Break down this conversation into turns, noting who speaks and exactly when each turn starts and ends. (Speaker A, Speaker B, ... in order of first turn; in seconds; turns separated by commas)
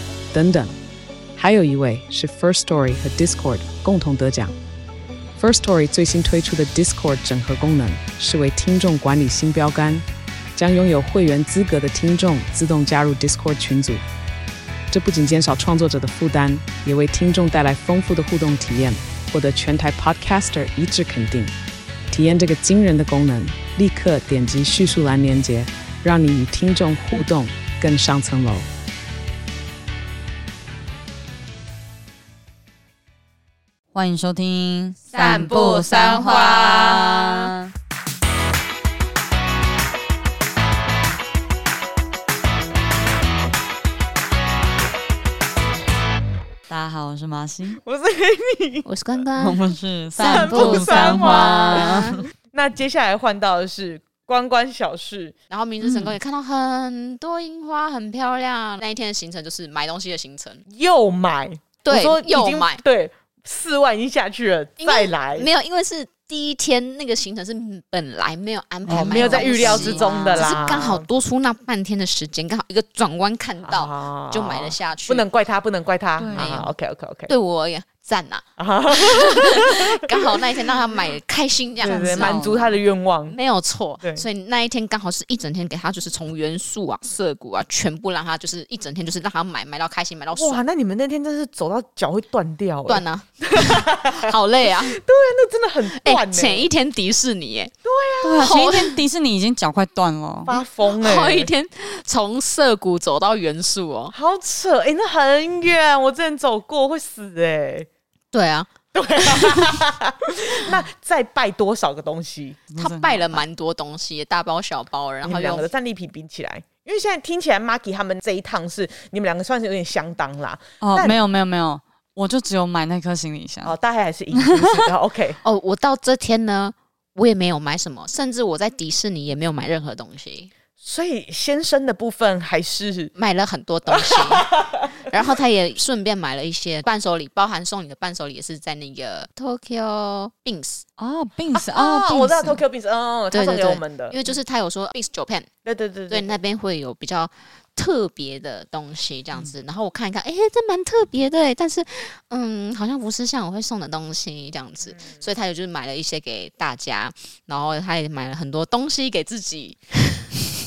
Speaker A: 0.3-0.7, Speaker A: 1.4-4.5, Speaker A: 5.4-14.0, Speaker A: 14.9-21.5, Speaker A: 22.1-28.7, Speaker B: 33.9-37.5, Speaker C: 35.1-37.5, Speaker B: 46.7-47.8, Speaker D: 47.8-48.9, Speaker C: 48.9-49.6, Speaker B: 49.4-52.2, Speaker C: 50.1-52.2, Speaker D: 50.2-55.4, Speaker C: 55.5-60.6, Speaker B: 55.8-56.1, Speaker D: 60.7-65.5, Speaker C: 61.8-62.8, Speaker C: 64.8-75.2, Speaker B: 68.9-70.6, Speaker D: 68.9-71.1, Speaker D: 73.6-77.3, Speaker B: 76.2-76.7, Speaker C: 77.3-82.5, Speaker D: 78.6-80.3, Speaker D: 81.8-83.4, Speaker B: 81.8-82.8, Speaker C: 83.3-90.6, Speaker D: 90.3-94.3, Speaker C: 92.9-95.0, Speaker D: 94.9-96.7, Speaker C: 95.9-97.7, Speaker D: 97.8-98.7, Speaker B: 98.2-100.6, Speaker C: 98.4-99.0, Speaker D: 100.5-101.5, Speaker C: 100.9-104.2, Speaker D: 104.1-107.9, Speaker C: 108.3-108.7, Speaker D: 108.9-112.6, Speaker C: 109.2-109.7, Speaker B: 112.7-113.4, Speaker C: 112.8-115.7, Speaker D: 115.2-121.2, Speaker B: 120.8-123.8, Speaker D: 123.6-125.4, Speaker B: 124.3-124.9, Speaker C: 125.4-130.5, Speaker D: 130.8-133.1, Speaker C: 133.2-140.9, Speaker D: 133.9-135.1, Speaker B: 141.0-142.6, Speaker D: 141.5-144.2, Speaker C: 143.3-145.5, Speaker D: 145.7-146.3, Speaker C: 146.1-160.4